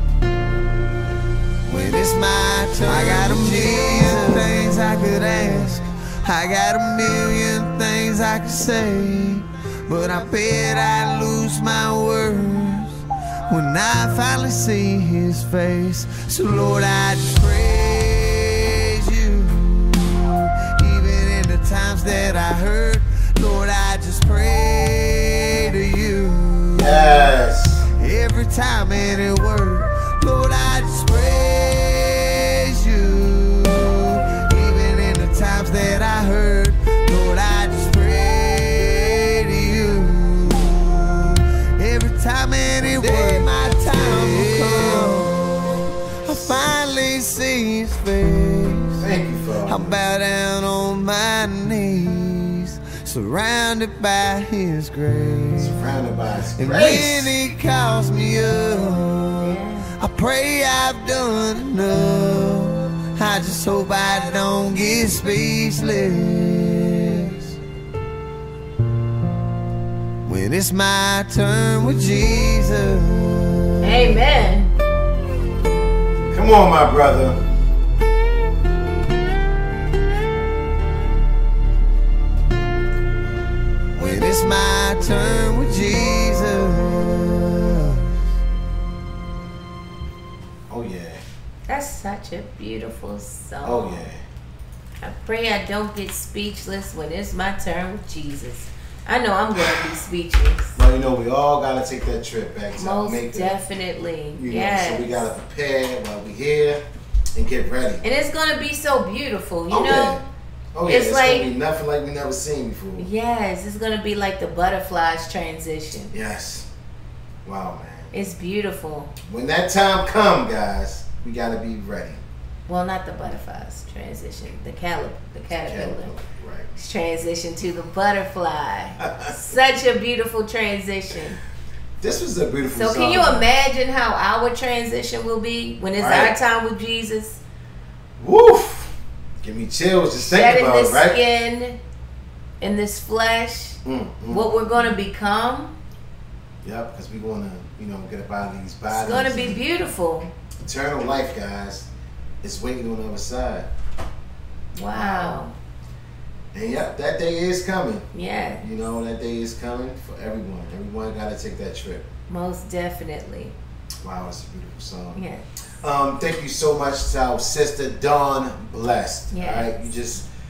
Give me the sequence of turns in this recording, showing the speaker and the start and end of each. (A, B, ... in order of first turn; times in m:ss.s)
0:01.7-0:27.2 A
0:26.7-0:27.9 B
0:28.0-0:49.0 A
0:42.9-0:45.2 B
0:49.0-0:50.0 B
0:49.6-0:55.8 A
0:55.6-0:57.4 B
0:56.6-1:07.4 A
0:59.4-0:59.9 C
1:10.2-1:14.0 A
1:13.8-1:14.7 C
1:16.3-1:17.4 B
1:23.9-1:28.1 A
1:30.7-1:31.2 B
1:31.7-1:34.1 C
1:33.6-1:34.2 B
1:35.0-1:40.8 C
1:40.8-1:43.6 B
1:42.8-1:45.3 C
1:44.4-1:46.8 B
1:47.4-1:48.0 B
1:48.0-1:50.3 C
1:49.7-1:50.2 B
1:50.7-1:53.1 B
1:50.8-1:51.5 C
1:53.0-1:56.1 C
1:56.1-1:56.7 B
1:57.4-1:58.1 B
1:58.1-1:59.1 C
1:59.3-2:02.2 B
2:02.7-2:06.1 C
2:05.6-2:06.8 B
2:06.8-2:11.4 C
2:09.0-2:09.3 B
2:12.0-2:13.5 B
2:12.7-2:17.4 C
2:16.0-2:16.4 B
2:18.2-2:21.2 B
2:20.2-2:21.8 C
2:22.6-2:23.8 C
2:23.8-2:25.0 B
2:24.3-2:25.8 C
2:26.6-2:29.6 B
2:28.9-2:30.3 C
2:30.6-2:31.9 B
2:32.4-2:33.7 B
2:34.7-2:35.5 C
2:34.9-2:35.4 B
2:36.5-2:38.0 B
2:38.1-2:38.7 C
2:38.6-2:42.1 B
2:42.3-2:43.5 C
2:44.0-2:45.2 B
2:45.2-2:45.4 C
2:45.8-2:50.3 B
2:49.3-2:50.0 C